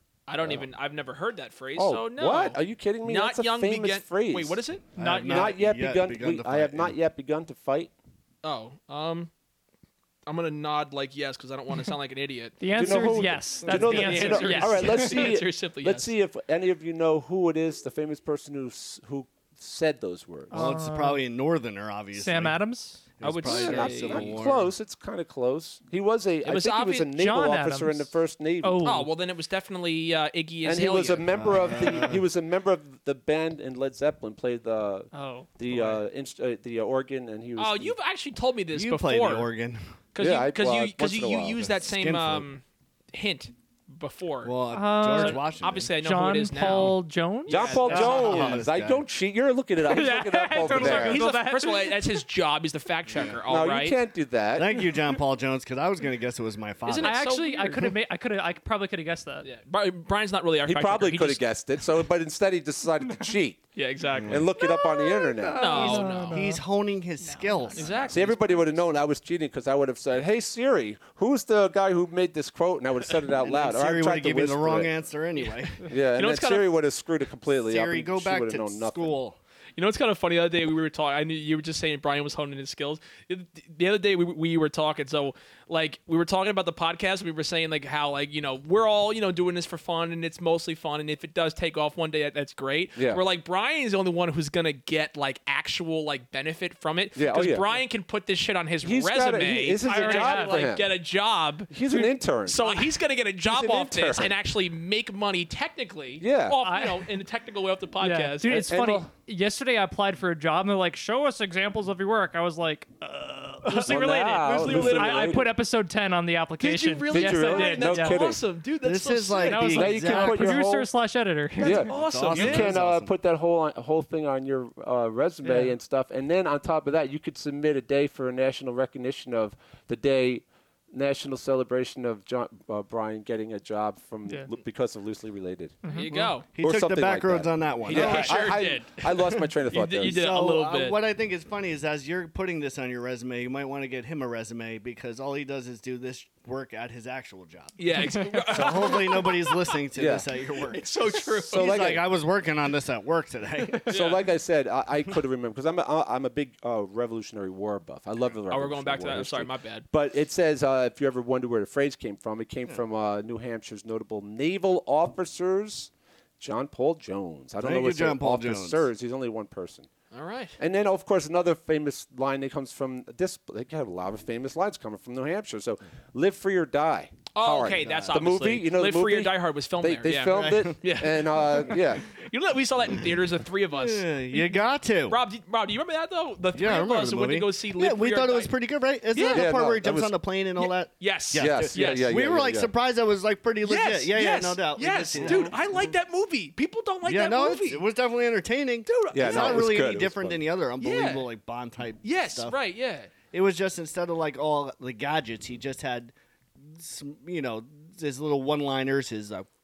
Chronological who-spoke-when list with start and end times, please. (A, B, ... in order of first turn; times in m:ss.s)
0:00.3-0:05.5 A
0:00.4-0:00.7 B
0:01.8-0:04.6 B
0:05.0-0:06.9 C
0:05.2-0:07.9 B
0:08.4-0:09.3 A
0:10.2-0:16.1 A
0:12.6-0:15.2 D
0:12.7-0:20.6 B
0:20.5-0:21.2 D
0:20.5-0:22.6 C
0:22.2-0:23.0 D
0:23.2-0:24.7 C
0:23.2-0:24.3 A
0:23.4-0:28.9 B
0:26.4-0:27.1 A
0:27.1-0:28.1 D
0:28.6-0:29.1 D
0:28.8-0:31.8 A
0:30.6-0:37.9 B
0:31.3-0:32.2 C
0:35.1-0:35.5 D
0:35.7-0:36.0 A
0:37.6-0:39.5 A
0:38.7-0:39.8 C
0:40.1-0:48.6 A
0:40.2-0:41.7 B
0:41.8-0:42.5 C
0:44.4-0:45.9 C
0:44.7-0:45.5 D
0:46.0-0:48.5 D
0:47.5-0:51.2 B
0:47.8-0:49.0 C
0:49.8-0:52.2 D
0:50.6-0:54.0 A
0:53.1-0:53.4 C
0:53.4-0:54.9 B
0:54.5-0:57.2 C
0:56.9-0:57.9 A
0:57.0-0:59.5 D
0:59.4-1:01.4 A
1:00.7-1:03.7 B
1:03.8-1:04.5 A
1:04.1-1:04.5 C
1:04.2-1:06.0 B
1:04.6-1:06.6 D
1:05.6-1:06.4 A
1:05.8-1:08.4 C
1:07.2-1:08.2 D
1:07.7-1:08.4 A
1:08.1-1:14.9 B
1:13.4-1:15.9 C
1:15.8-1:19.2 B
1:15.9-1:16.7 A
1:17.6-1:19.4 C
1:19.8-1:41.8 A
1:33.0-1:33.2 B
1:37.2-1:37.7 B
1:38.8-1:40.9 B
1:39.8-1:40.6 D
1:41.7-1:42.6 B
1:41.9-1:42.9 D
1:42.4-1:48.7 A
1:43.5-1:44.3 B
1:46.2-1:46.6 B
1:46.6-1:47.1 D
1:48.0-1:58.2 D
1:48.5-1:49.1 B
1:53.6-1:55.5 A
1:53.9-1:55.5 B
1:56.6-2:00.0 A
1:57.1-1:58.4 B
1:58.8-2:00.6 C
1:59.4-2:01.9 D
1:59.7-2:00.9 B
2:01.6-2:15.8 B
2:01.6-2:03.1 C
2:01.6-2:02.7 A
2:05.4-2:05.7 D
2:15.8-2:16.2 D
2:15.9-2:16.4 A
2:16.1-2:18.6 C
2:16.4-2:20.2 B
2:17.8-2:21.0 A
2:20.0-2:33.9 C
2:27.8-2:29.8 A
2:28.0-2:28.5 D
2:29.9-2:30.3 B
2:30.6-2:32.0 A
2:31.5-2:32.0 B
2:33.9-2:49.9 B
2:33.9-2:34.2 A
2:38.5-2:39.9 A
2:47.6-2:48.9 C
2:50.1-2:50.6 A
2:50.6-3:02.0 B
2:57.4-3:04.6 A
2:57.8-2:58.2 C
3:00.3-3:00.8 C
3:03.7-3:05.2 C
3:05.1-3:08.5 A
3:06.6-3:15.6 C
3:09.1-3:09.5 A
3:09.3-3:10.1 B
3:10.6-3:12.2 A
3:11.3-3:12.7 B
3:13.6-3:17.8 A
3:15.2-3:15.6 B
3:17.1-3:22.6 C
3:18.9-3:19.9 A
3:19.1-3:20.4 B
3:20.8-3:21.3 A
3:22.0-3:23.1 A
3:23.3-3:29.5 C